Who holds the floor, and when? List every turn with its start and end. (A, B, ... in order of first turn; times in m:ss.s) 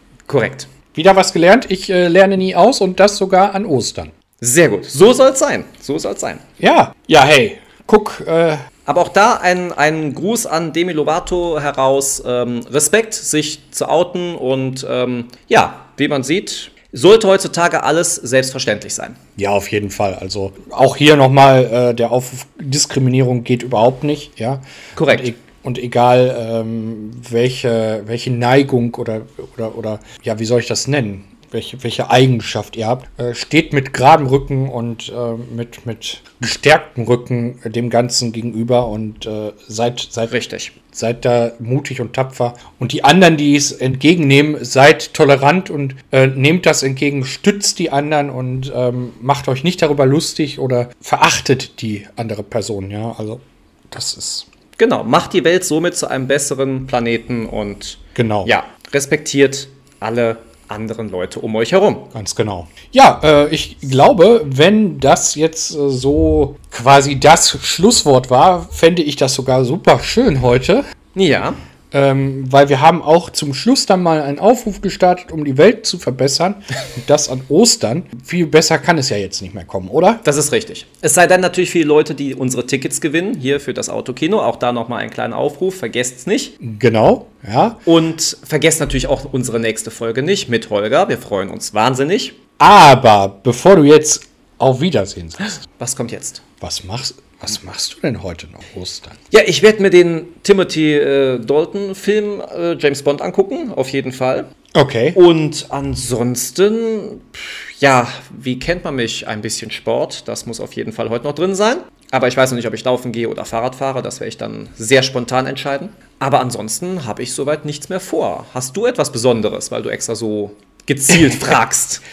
0:00.3-0:00.7 A
0:00.9-0:04.1 B
0:04.4-0:06.4 A
0:06.6-0:08.6 B
0:08.8-0:19.2 A
0:19.4-0:40.3 B
0:25.0-0:25.3 A
0:40.3-0:40.7 A
0:40.9-0:54.5 B
0:54.8-1:02.1 A
0:58.1-0:58.5 B
1:02.1-1:10.8 B
1:11.1-1:11.6 A
1:11.9-1:20.2 B
1:20.2-1:26.5 A
1:26.6-1:27.8 B
1:27.8-1:32.4 A
1:32.6-1:35.6 B
1:35.6-1:36.4 A
1:36.6-1:39.2 B
1:39.3-1:44.5 A
1:44.7-1:45.2 B
1:45.1-2:02.0 A
2:01.1-2:01.4 B